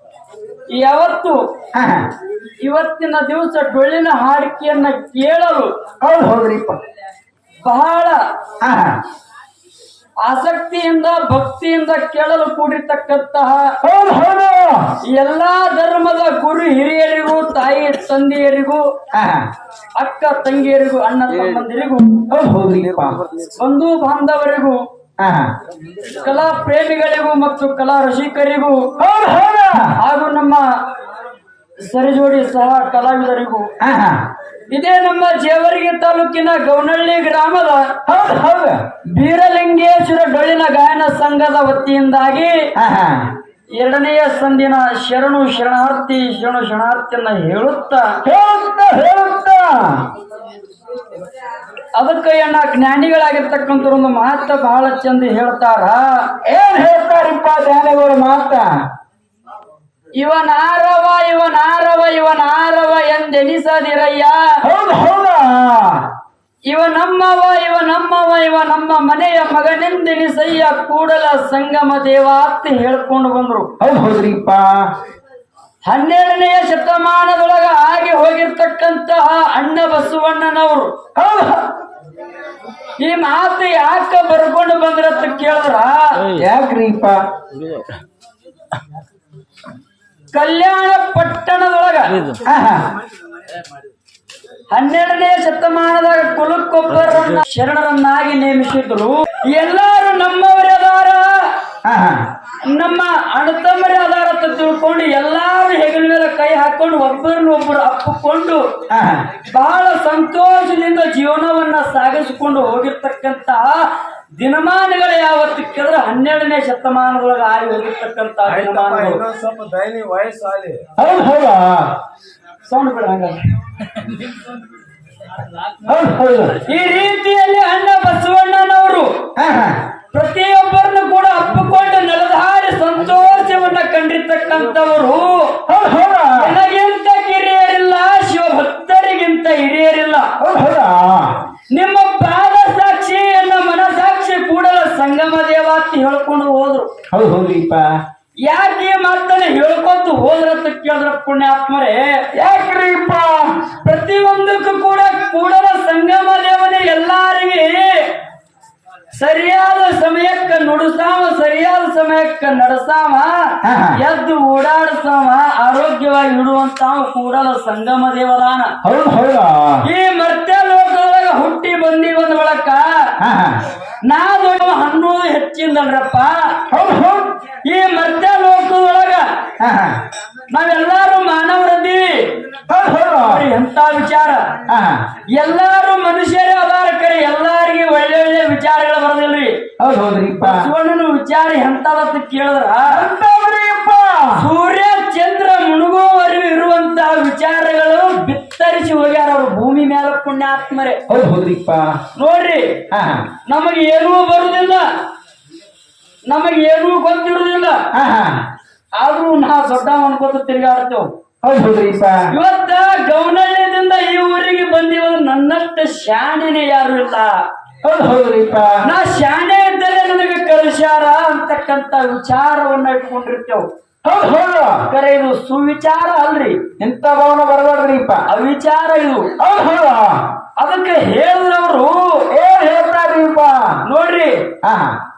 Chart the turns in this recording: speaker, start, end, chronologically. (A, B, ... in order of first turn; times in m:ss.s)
0:00.7-0:01.4 A
0:01.7-0:02.1 B
0:02.6-0:05.7 A
0:06.0-0:06.8 B
0:07.6-0:08.2 A
0:08.6-0:09.0 B
0:10.2-0:13.8 A
0:13.8-0:15.0 B
0:15.0-0:18.9 A
0:19.1-0:19.5 B
0:20.0-0:22.3 A
0:22.3-0:23.2 B
0:23.0-0:23.5 C
0:23.6-0:24.8 A
0:25.2-0:25.5 B
0:26.1-0:28.9 A
0:29.0-0:30.0 B
0:30.0-0:30.7 A
0:31.8-0:33.7 A
0:33.8-0:34.2 B
0:34.7-0:38.0 A
0:38.1-0:38.8 B
0:39.1-0:42.7 A
0:42.8-0:43.3 B
0:43.8-0:48.2 A
0:48.2-0:50.1 B
0:52.0-0:56.3 A
0:56.4-0:58.8 B
1:00.2-1:04.6 A
1:04.6-1:06.1 B
1:06.7-1:13.7 A
1:13.8-1:15.0 B
1:15.8-1:21.0 A
1:21.2-1:21.7 B
1:23.0-1:26.3 A
1:26.3-1:27.2 B
1:30.3-1:32.4 A
1:32.4-1:32.9 B
1:34.7-1:41.5 A
1:41.8-1:42.3 B
1:42.7-1:48.6 A
1:48.9-1:49.3 B
1:49.4-1:59.2 A
1:58.5-2:00.9 C
2:01.0-2:01.9 B
2:02.7-2:03.4 A
2:05.8-2:06.6 B
2:06.6-2:09.3 A
2:09.4-2:09.8 B
2:10.1-2:15.6 A
2:15.7-2:16.6 B
2:16.4-2:20.3 A
2:20.4-2:21.4 B
2:21.7-2:26.9 A
2:27.1-2:27.9 B
2:28.4-2:32.2 A
2:32.3-2:33.7 B
2:33.8-2:38.2 A
2:39.1-2:48.8 A
2:43.6-2:44.0 B
2:48.8-2:49.9 B
2:49.8-2:53.1 A
2:53.2-2:53.6 B
2:54.0-2:56.6 A
2:56.7-2:57.4 B
2:57.6-2:59.3 A
2:59.6-3:00.0 B
3:00.5-3:02.4 A
3:02.7-3:03.5 B
3:03.2-3:04.6 A
3:04.7-3:05.1 B
3:05.3-3:09.6 A
3:09.8-3:10.7 B
3:10.4-3:13.1 A
3:12.9-3:14.5 B
3:14.4-3:21.0 A
3:21.1-3:21.9 B
3:22.2-3:22.8 A
3:22.9-3:23.3 B
3:23.5-3:24.9 A
3:26.3-3:27.8 A
3:27.9-3:28.4 B
3:29.0-3:31.1 A
3:31.4-3:32.3 B
3:32.3-3:37.4 A
3:37.8-3:38.9 B
3:38.8-3:43.7 A
3:44.0-3:44.9 B
3:44.9-3:46.6 A
3:46.8-3:48.2 B
3:48.3-3:49.3 A
3:49.4-3:50.3 B
3:50.6-3:52.3 A
3:52.3-3:53.8 B
3:53.8-3:54.5 A
3:54.6-3:55.0 B